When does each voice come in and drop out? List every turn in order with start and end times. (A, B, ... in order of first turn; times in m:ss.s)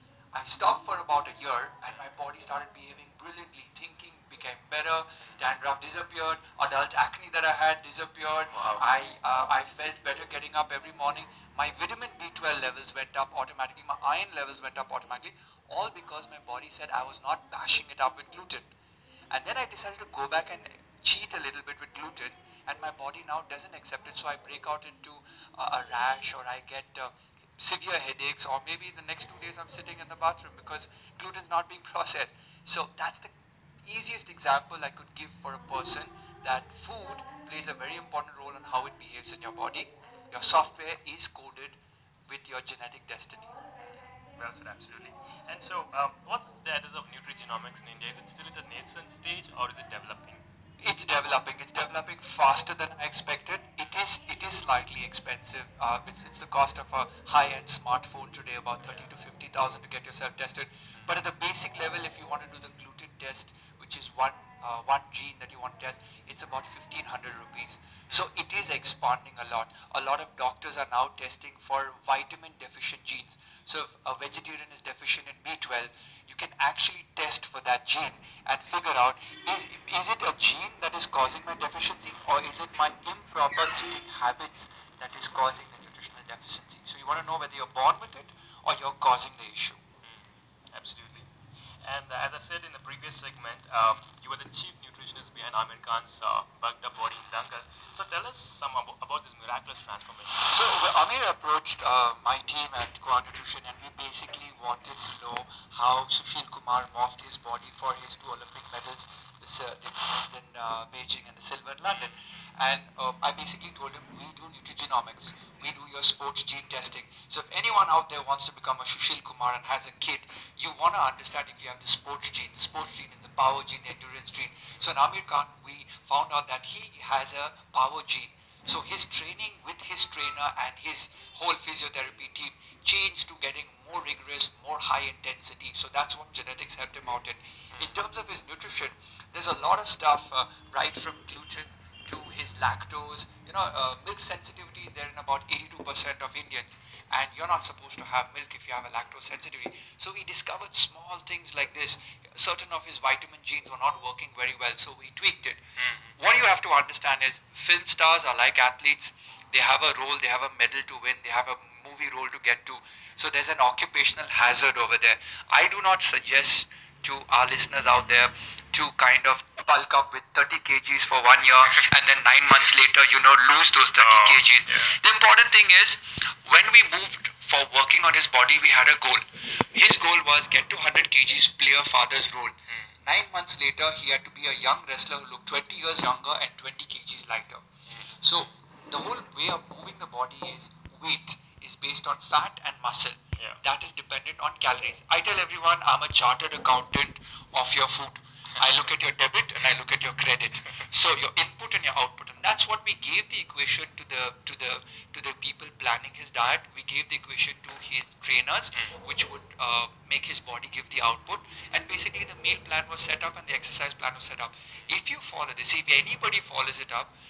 0:00.3-0:18.7 A
0:08.5-0:08.8 B
0:19.3-0:33.3 A
0:33.8-0:43.5 A
0:43.8-0:50.4 B
0:50.8-1:29.8 A
1:30.0-1:31.3 B
1:31.8-1:40.5 B
1:40.3-2:35.6 A
1:51.9-1:52.2 B
2:35.8-2:36.1 B
2:36.2-3:37.1 A
2:54.0-2:55.0 B
3:02.7-3:02.9 B
3:07.9-3:08.5 B